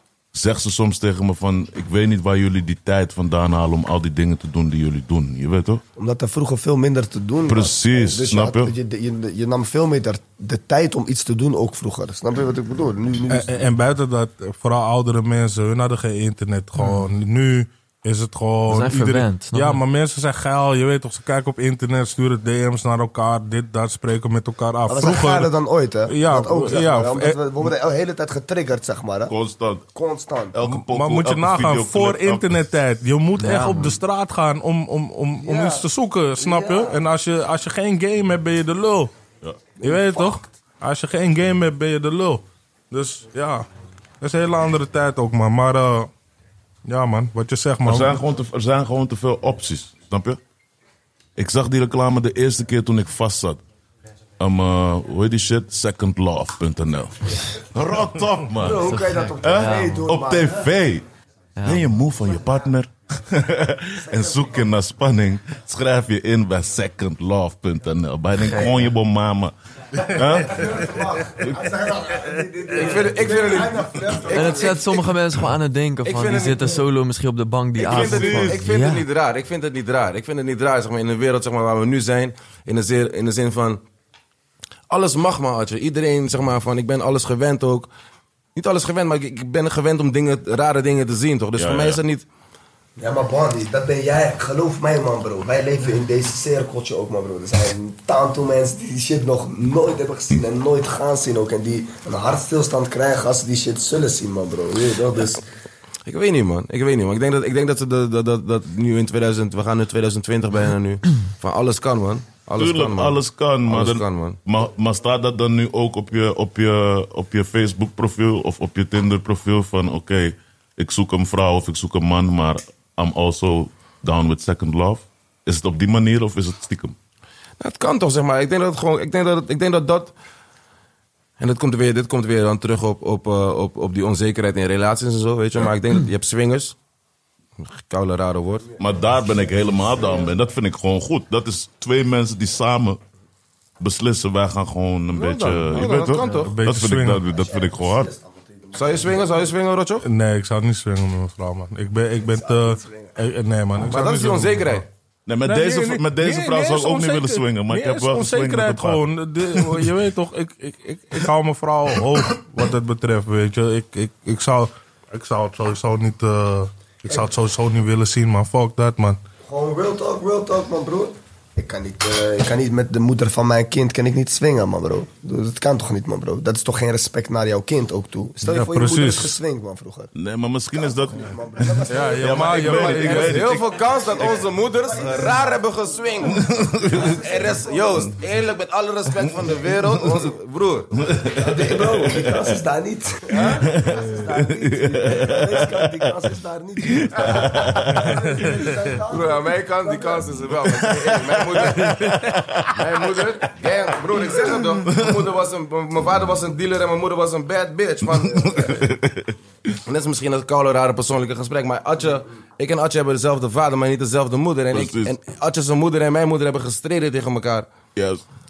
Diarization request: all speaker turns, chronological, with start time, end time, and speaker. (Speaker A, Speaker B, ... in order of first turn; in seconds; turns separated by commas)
Speaker A: 0.3-5.8, Speaker B: 6.0-13.6, Speaker A: 7.5-8.7, Speaker C: 13.3-25.5, Speaker D: 16.8-17.1, Speaker D: 18.7-19.8, Speaker B: 24.9-29.3, Speaker C: 26.1-27.4, Speaker A: 29.3-29.9, Speaker B: 29.9-30.6, Speaker A: 30.5-32.5, Speaker C: 30.7-39.1, Speaker D: 33.4-34.0, Speaker B: 35.4-37.0, Speaker B: 39.8-40.4, Speaker C: 39.8-43.7, Speaker C: 44.2-46.1, Speaker C: 46.9-48.2, Speaker A: 47.9-50.4, Speaker A: 51.4-53.6, Speaker A: 54.4-61.0, Speaker B: 58.5-60.7, Speaker D: 58.8-60.1, Speaker D: 61.6-61.9, Speaker A: 61.6-71.6, Speaker B: 64.0-64.6, Speaker B: 70.3-75.1, Speaker E: 72.7-74.7, Speaker D: 74.3-79.1, Speaker E: 76.0-76.8, Speaker E: 77.8-83.8, Speaker A: 77.9-78.6, Speaker E: 84.9-87.9, Speaker E: 88.5-92.2, Speaker A: 91.6-92.0, Speaker B: 93.0-105.4, Speaker E: 106.1-114.4, Speaker A: 112.6-127.0, Speaker E: 127.6-130.1, Speaker E: 131.4-136.8, Speaker E: 137.6-138.7, Speaker A: 138.8-143.0, Speaker A: 143.8-148.1, Speaker E: 145.1-146.5, Speaker C: 146.4-147.2, Speaker B: 147.2-149.5, Speaker E: 148.8-150.1, Speaker C: 150.0-154.8, Speaker B: 152.2-153.2, Speaker E: 153.8-154.8, Speaker A: 155.3-159.9, Speaker C: 155.4-169.2, Speaker B: 169.5-180.1, Speaker C: 178.4-179.4, Speaker A: 180.2-183.7, Speaker B: 180.7-182.9, Speaker C: 181.9-183.6, Speaker E: 182.7-191.0, Speaker B: 183.5-188.2, Speaker A: 186.2-187.2, Speaker A: 191.0-191.9, Speaker B: 191.2-200.7, Speaker E: 193.3-193.6, Speaker A: 193.5-195.8, Speaker A: 197.0-198.0, Speaker C: 198.4-198.8, Speaker E: 199.1-202.0, Speaker A: 201.7-202.7, Speaker E: 202.7-208.7, Speaker A: 204.8-205.2, Speaker A: 208.1-209.3, Speaker E: 209.8-217.7, Speaker A: 214.7-215.1, Speaker A: 218.0-218.2